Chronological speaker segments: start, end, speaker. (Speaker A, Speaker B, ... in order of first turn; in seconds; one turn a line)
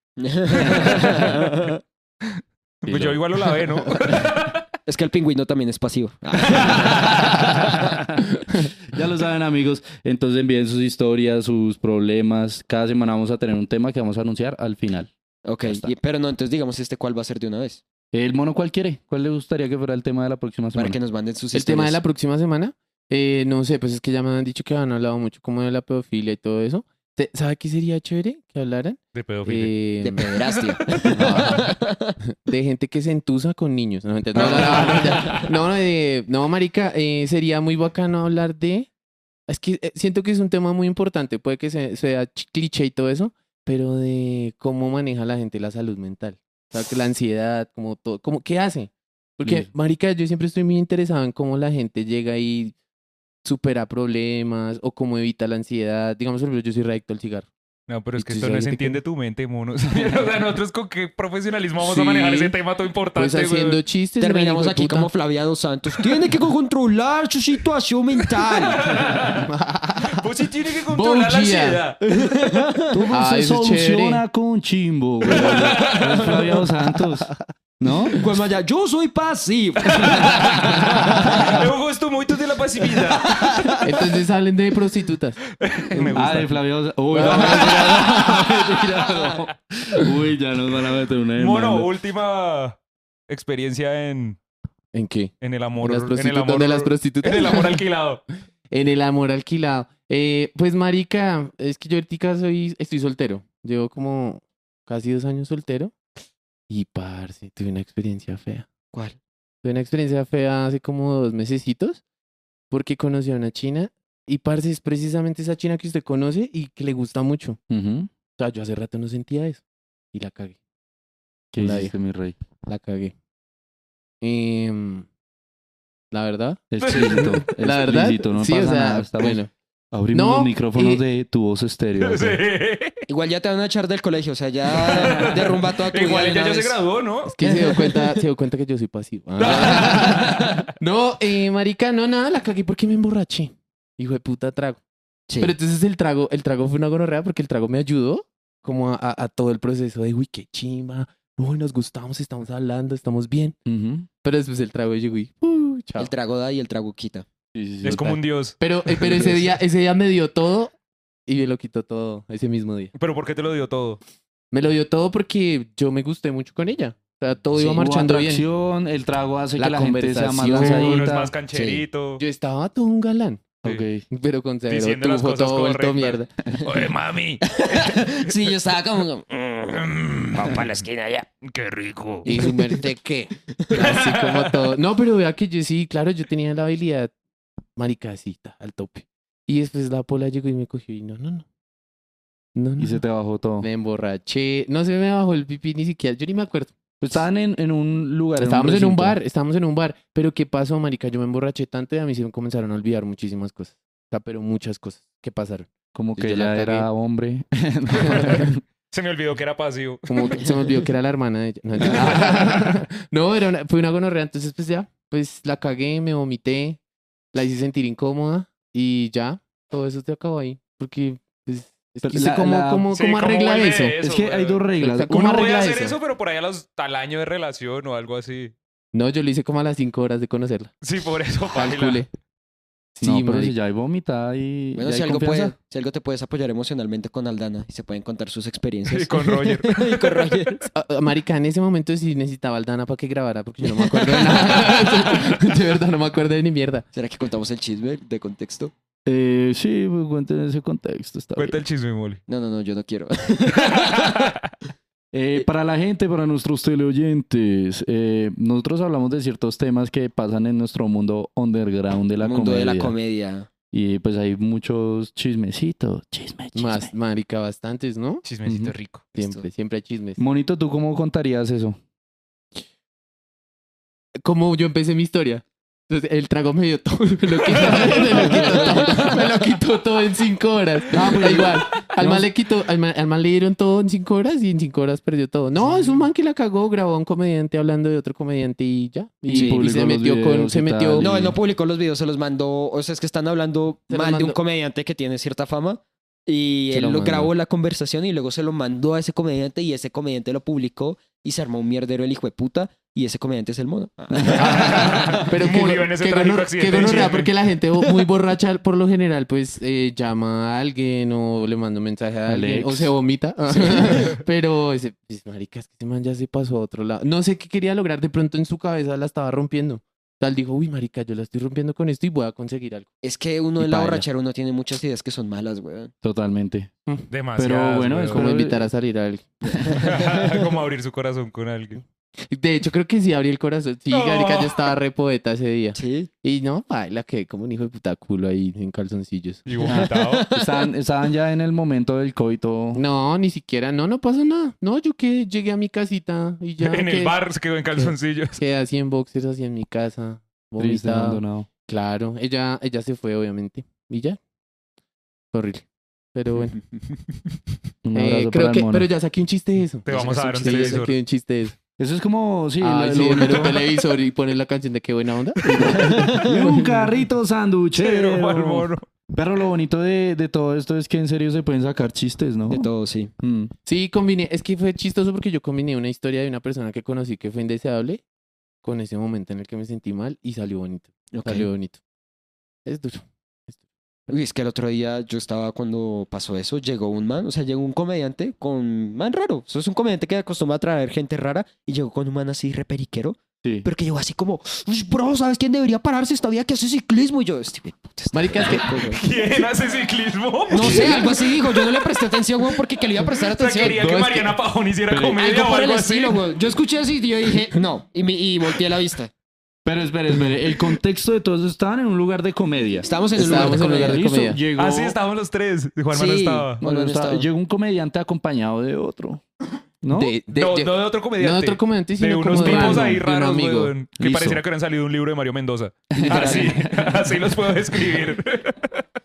Speaker A: 0.2-1.8
Speaker B: 0.5-1.6
Speaker C: 0.6-0.9
Speaker D: 2.8-4.2
Speaker B: 2.9-4.6
Speaker A: 4.9-7.9
Speaker B: 6.5-7.5
Speaker C: 8.9-15.1
Speaker A: 15.4-17.8
Speaker C: 15.6-15.9
Speaker C: 18.1-21.0
Speaker A: 20.7-22.0
Speaker D: 21.5-30.4
Speaker B: 29.1-29.8
Speaker A: 30.0-32.1
Speaker D: 31.1-38.9
Speaker B: 34.4-35.5
Speaker A: 34.4-35.1
Speaker D: 39.5-52.7
Speaker C: 49.4-49.7
Speaker D: 53.4-57.5
Speaker B: 57.9-63.8
Speaker D: 58.1-59.0
Speaker D: 61.8-62.5
Speaker D: 63.1-65.1
Speaker A: 64.2-69.0
Speaker B: 68.6-69.5
Speaker D: 69.4-70.2
Speaker B: 70.2-72.0
Speaker D: 70.9-71.8
Speaker A: 72.0-73.0
Speaker C: 72.9-78.2
Speaker D: 73.1-74.2
Speaker B: 75.3-76.3
Speaker A: 78.1-81.6
Speaker B: 79.9-83.4
Speaker A: 82.9-83.8
Speaker D: 83.8-85.4
Speaker B: 85.6-86.5
Speaker D: 85.9-86.5
Speaker C: 86.1-91.9
Speaker D: 87.1-88.6
Speaker B: 91.4-92.8
Speaker B: 93.3-94.4
Speaker D: 94.9-97.8
Speaker B: 95.4-98.2
Speaker D: 98.7-105.9
Speaker D: 106.7-108.7
Speaker D: 109.6-112.0
Speaker D: 112.7-117.6
Speaker C: 117.7-118.1
Speaker D: 118.4-119.6
Speaker D: 120.1-120.6
Speaker C: 121.5-122.3
Speaker D: 121.6-121.9
Speaker D: 122.7-123.1
Speaker D: 124.2-125.1
Speaker D: 126.1-129.5
Speaker C: 126.7-132.4
Speaker B: 126.8-127.3
Speaker D: 130.1-131.0
Speaker B: 132.0-133.0
Speaker A: 133.1-136.8
Speaker B: 134.7-137.3
Speaker D: 137.3-144.8
Speaker A: 137.4-138.2
Speaker B: 139.4-140.6
Speaker A: 139.4-139.9
Speaker A: 145.3-145.5
Speaker D: 145.4-153.6
Speaker C: 153.7-154.1
Speaker D: 154.2-156.1
Speaker A: 156.0-157.2
Speaker C: 157.5-158.2
Speaker B: 157.8-158.6
Speaker D: 158.6-160.7
Speaker C: 159.0-159.4
Speaker D: 161.2-162.9
Speaker B: 162.9-164.0
Speaker D: 164.5-168.4
Speaker C: 167.5-171.3
Speaker D: 169.6-171.1
Speaker B: 170.6-172.2
Speaker A: 171.5-171.8
Speaker D: 172.2-173.5
Speaker C: 173.6-174.0
Speaker D: 174.1-176.3
Speaker B: 174.7-178.3
Speaker A: 177.5-181.3
Speaker B: 179.9-180.8
Speaker B: 181.4-182.3
Speaker D: 182.2-187.1
Speaker A: 182.3-182.5
Speaker B: 183.7-184.6
Speaker D: 187.8-191.4
Speaker D: 192.5-193.0
Speaker C: 192.8-193.7
Speaker D: 193.6-196.8
Speaker C: 197.0-199.2
Speaker D: 198.4-206.9
Speaker C: 205.9-208.6
Speaker B: 208.1-210.5
Speaker D: 208.1-208.4
Speaker D: 210.1-216.8
Speaker D: 217.3-224.0
Speaker C: 222.0-222.9
Speaker B: 222.9-228.5
Speaker C: 224.0-225.2
Speaker D: 224.8-226.0
Speaker D: 228.9-230.7
Speaker B: 230.8-232.0
Speaker D: 231.5-232.1
Speaker D: 232.9-233.5
Speaker C: 233.0-235.5
Speaker A: 234.8-240.7
Speaker B: 238.9-240.3
Speaker D: 240.7-246.8
Speaker A: 243.8-244.8
Speaker A: 246.9-248.7
Speaker C: 249.1-251.6
Speaker B: 251.3-252.2
Speaker A: 252.3-254.3
Speaker B: 253.6-254.3
Speaker C: 255.1-262.9
Speaker A: 262.2-263.5
Speaker C: 263.7-266.9
Speaker D: 266.5-268.2
Speaker B: 268.2-269.1
Speaker C: 268.4-268.7
Speaker A: 269.1-269.4
Speaker D: 269.1-270.2
Speaker C: 270.2-271.8
Speaker D: 274.2-291.1
Speaker B: 277.6-278.4
Speaker A: 278.2-279.0
Speaker C: 278.2-278.5
Speaker C: 280.9-282.3
Speaker C: 289.3-291.4
Speaker A: 289.3-289.6
Speaker A: 291.0-305.3
Speaker D: 293.9-294.4
Speaker D: 296.7-297.3
Speaker C: 304.2-304.7
Speaker D: 304.4-322.9
Speaker B: 304.4-307.3
Speaker C: 312.3-312.9
Speaker A: 323.0-325.9
Speaker D: 323.6-324.0
Speaker C: 326.0-326.7
Speaker B: 327.1-328.3
Speaker C: 327.4-328.7
Speaker D: 328.1-329.8
Speaker A: 329.6-330.4
Speaker B: 329.7-331.8
Speaker D: 332.2-339.5
Speaker B: 333.9-334.6
Speaker A: 335.7-336.1
Speaker B: 339.4-340.3
Speaker A: 339.6-340.7
Speaker C: 339.6-342.8
Speaker D: 342.7-347.2
Speaker B: 346.6-348.4
Speaker D: 347.7-354.2
Speaker C: 350.6-351.5
Speaker D: 355.3-356.6
Speaker C: 357.8-358.9
Speaker D: 357.9-361.6
Speaker B: 359.9-360.9
Speaker C: 361.8-363.6
Speaker D: 362.6-366.9
Speaker C: 365.5-372.7
Speaker A: 365.9-366.3
Speaker B: 367.8-368.8
Speaker A: 372.5-373.1
Speaker C: 373.2-373.5
Speaker D: 373.6-378.0
Speaker D: 378.6-381.8
Speaker A: 381.1-381.5
Speaker D: 382.6-383.6
Speaker A: 384.1-398.9
Speaker D: 398.1-399.0
Speaker B: 398.5-406.2
Speaker A: 400.5-403.9
Speaker C: 400.6-401.0
Speaker D: 403.6-404.3
Speaker C: 404.9-405.2
Speaker A: 405.1-409.1
Speaker C: 409.6-415.0
Speaker A: 412.8-414.0
Speaker D: 413.1-414.4
Speaker B: 414.5-416.6
Speaker A: 415.9-417.3
Speaker C: 416.6-419.2
Speaker C: 419.8-420.1
Speaker D: 419.9-423.7
Speaker B: 420.3-428.8
Speaker C: 422.4-423.0
Speaker C: 424.0-424.4
Speaker C: 425.9-427.1
Speaker A: 426.0-426.6